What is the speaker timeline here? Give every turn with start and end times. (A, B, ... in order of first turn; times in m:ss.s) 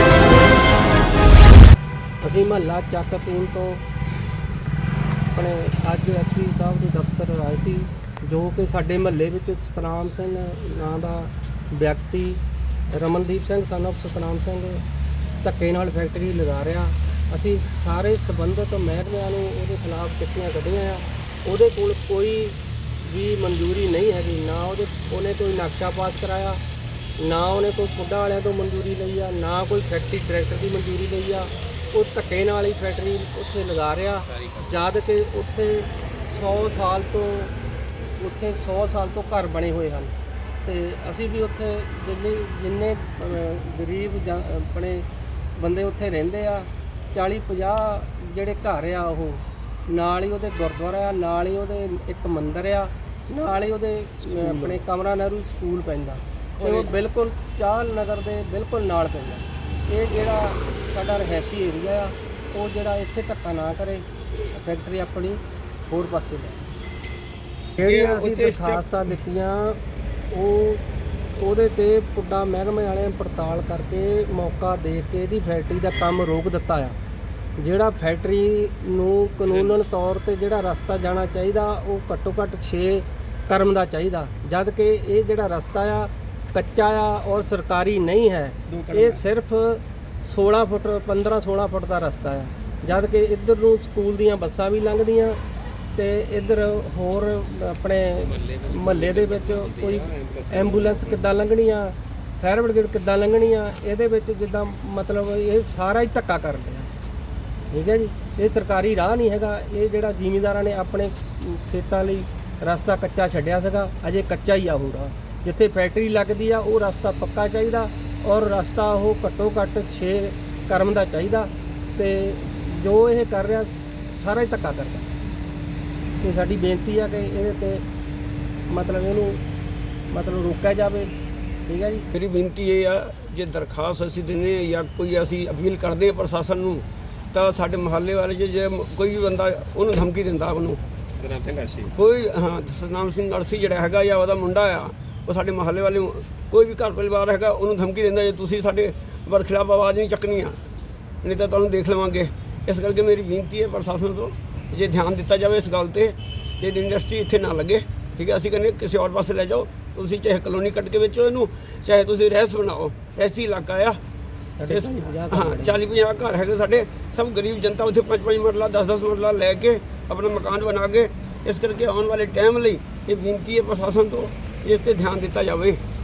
0:02.2-0:03.8 A
0:05.3-0:14.8 A
0:15.4-0:26.6 A
0:27.2-0:37.5 A
0:34.2-0:34.8 B
0:38.2-0:40.1 A
0:40.6-1:06.6 A
0:56.6-0:56.9 C
1:07.8-1:09.8 A
1:07.8-1:08.8 C
1:10.3-1:10.8 A
1:11.4-1:17.0 A
1:17.6-1:35.4 A
1:19.4-1:19.8 B
1:28.7-1:29.0 B
1:36.0-1:46.9 A
1:38.2-1:41.3 B
1:47.7-2:05.1 A
2:06.2-2:07.8 A
2:08.7-2:09.4 A
2:10.1-2:11.1 A
2:11.7-2:12.1 A
2:12.1-2:20.8 C
2:21.2-2:21.9 B
2:21.9-2:30.6 C
2:31.2-2:44.0 C
2:44.6-2:45.8 A
2:44.7-2:55.8 C